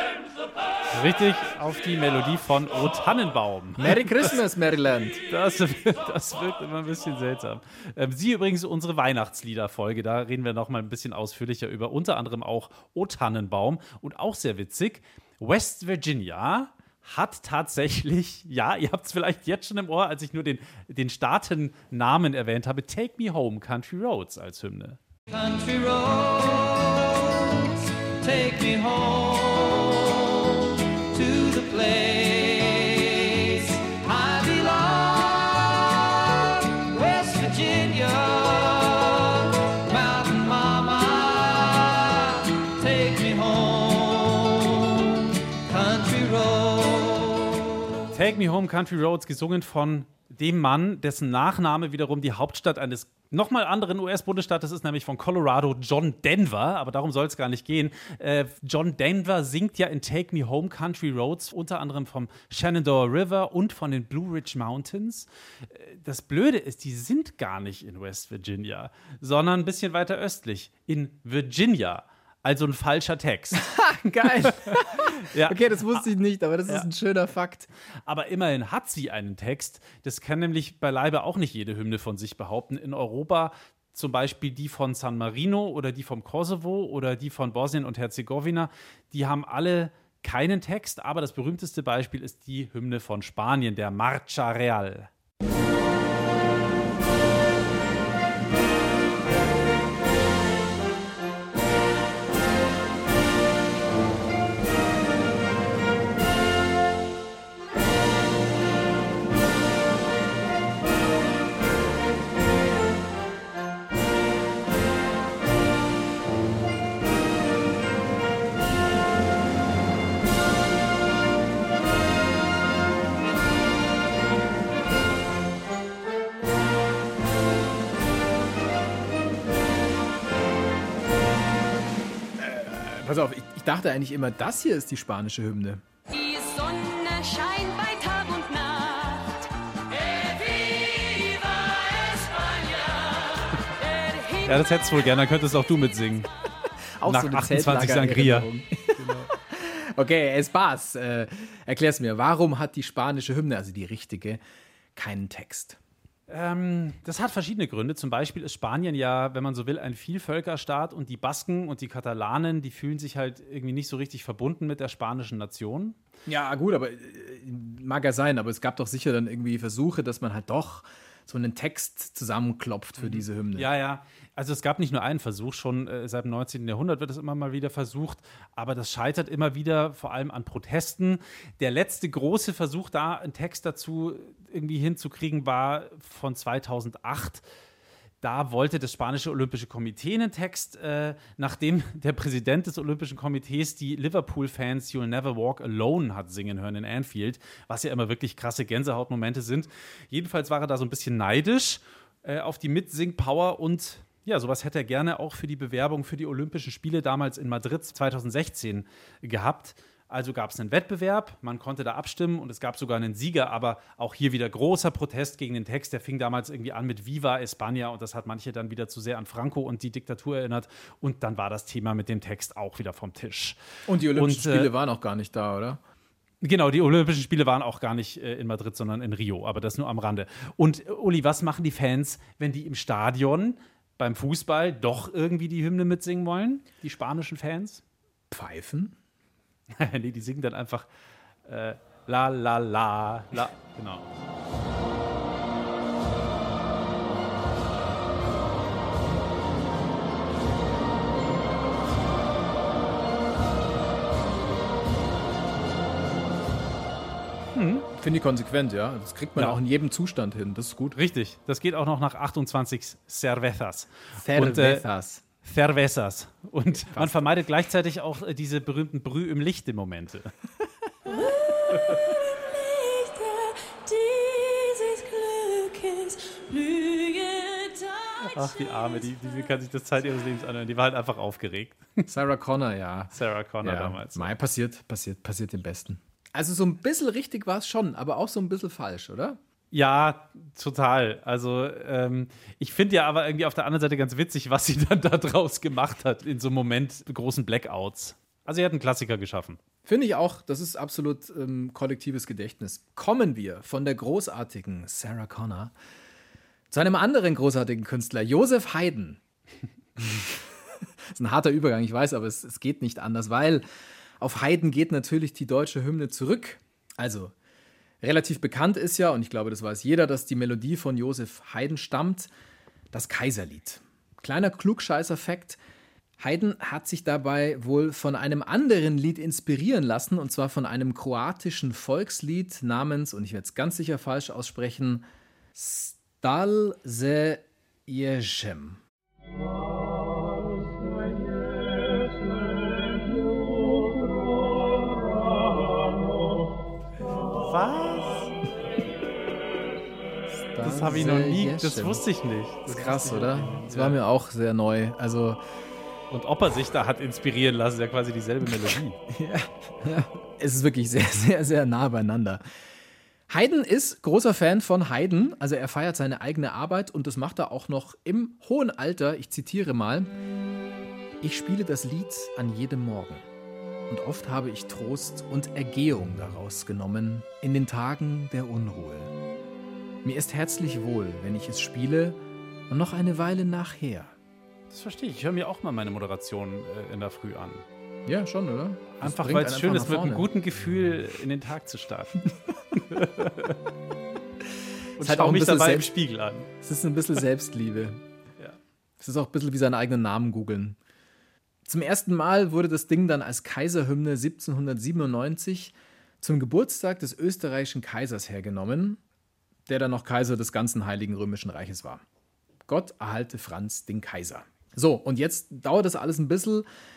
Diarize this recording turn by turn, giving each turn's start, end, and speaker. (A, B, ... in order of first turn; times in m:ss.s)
0:00.9-0:04.2 A
0:03.8-0:05.2 B
0:05.3-0:25.0 A
0:25.3-0:47.8 C
0:48.1-1:16.0 A
1:13.6-1:17.7 B
1:18.0-1:35.1 A
2:12.4-2:15.8 B
2:16.1-2:19.4 D
2:19.9-2:24.9 D
2:24.4-2:26.3 A
2:27.0-2:34.4 B
2:27.0-2:28.4 A
2:29.0-2:29.3 A
2:34.9-2:35.8 B
2:36.3-2:46.0 A
2:46.3-2:53.7 B
2:53.0-3:07.4 A
3:08.2-3:43.6 A
3:43.9-3:45.8 B
3:44.1-3:44.7 A
3:46.4-3:57.8 A
3:58.3-3:59.0 B
3:59.8-4:00.9 A
4:01.4-4:04.0 A
4:17.5-4:17.9 A
4:17.9-4:21.0 B
4:21.0-4:24.8 A
4:24.2-4:25.2 B
4:25.4-4:30.3 A
4:26.9-4:27.3 B
4:31.1-4:39.5 D
4:38.3-4:42.0 A
4:42.1-4:49.4 B
4:43.1-4:44.3 A
4:49.7-4:59.6 A
4:59.8-5:05.7 B
5:06.7-5:09.2 B
5:10.0-5:10.5 B
5:11.1-5:13.6 B
5:14.2-5:17.3 B
5:18.0-5:22.3 B
5:22.9-5:25.6 B
5:26.2-5:38.8 B
5:47.4-5:48.3 A
5:50.3-5:52.0 B
5:50.6-5:54.0 A
5:52.6-5:55.4 B
5:56.1-5:59.0 A
5:59.1-6:02.4 B
6:03.3-6:10.1 B
6:11.2-6:13.2 B
6:13.9-6:19.1 B
6:20.0-6:24.1 B
6:24.7-6:27.6 A
6:28.0-6:30.3 B
6:29.0-6:32.2 A
6:32.8-6:33.6 A
6:35.0-6:35.9 B
6:35.0-6:36.5 A
6:36.6-6:38.0 B
6:39.0-6:40.8 B
6:41.6-6:49.0 B
6:49.7-6:52.0 B
6:52.7-6:56.6 B